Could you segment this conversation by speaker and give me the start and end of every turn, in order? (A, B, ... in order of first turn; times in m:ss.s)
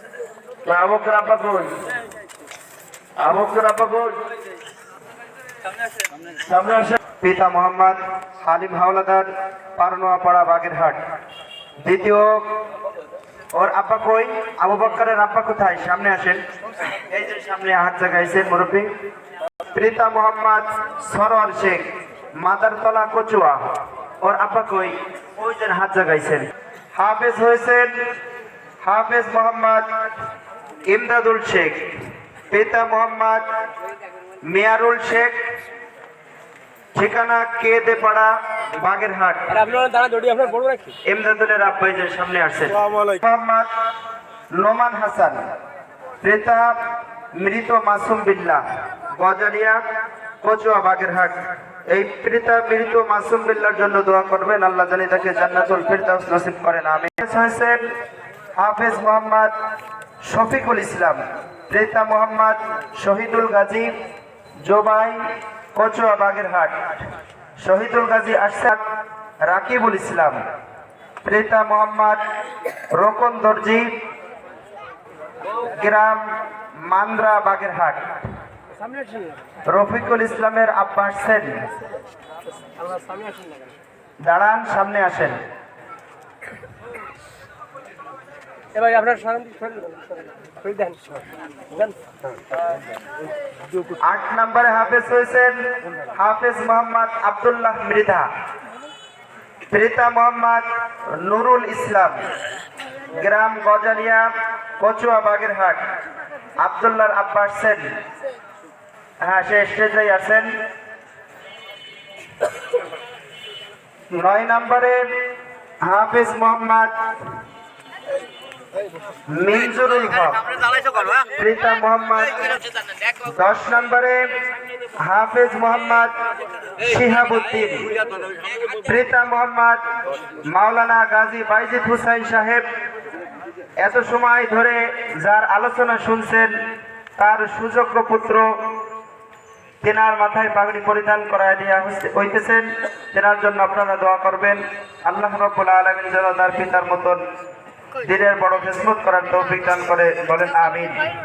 0:00.6-0:01.8 A
0:03.2-0:04.1 A
0:06.4-0:07.0 A
0:07.2-0:11.0 B
0:11.8-0:12.4 B
0:13.5-0:16.4 B
0:17.1-0:18.9 B
0:19.7-0:21.8 B
0:22.4-0:23.6 B
0:24.2-0:27.9 B
0:28.8-0:30.1 B
0:30.8-0:31.9 B
0:32.5-0:33.5 B
0:34.4-0:35.4 B
0:36.9-0:39.5 B
0:39.5-0:40.9 C
0:41.0-0:43.7 B
0:44.5-0:45.4 B
0:46.2-0:46.8 B
0:47.3-0:49.8 B
0:50.4-0:51.4 B
0:51.9-0:57.8 B
0:58.6-0:59.5 B
1:00.2-1:03.9 B
1:04.6-1:05.2 B
1:05.7-1:08.8 B
1:09.4-1:10.4 B
1:11.2-1:12.2 B
1:12.9-1:13.9 B
1:15.6-1:18.0 B
1:18.8-1:19.4 C
1:19.6-1:21.6 B
1:22.7-1:23.7 C
1:24.2-1:25.4 B
1:28.7-1:32.0 C
1:34.0-1:35.6 B
1:36.1-1:38.3 B
1:39.7-1:42.2 B
1:43.1-1:45.8 B
1:46.6-1:47.8 B
1:49.2-1:50.5 B
1:54.1-1:55.0 B
1:55.8-1:56.9 B
1:59.3-2:00.5 B
2:01.3-2:02.6 B
2:03.2-2:04.3 B
2:05.0-2:06.1 B
2:06.8-2:08.0 B
2:08.8-2:09.8 B
2:10.5-2:12.6 B
2:13.8-2:16.5 B
2:17.2-2:18.5 B
2:19.8-2:27.2 B
2:28.0-2:31.0 B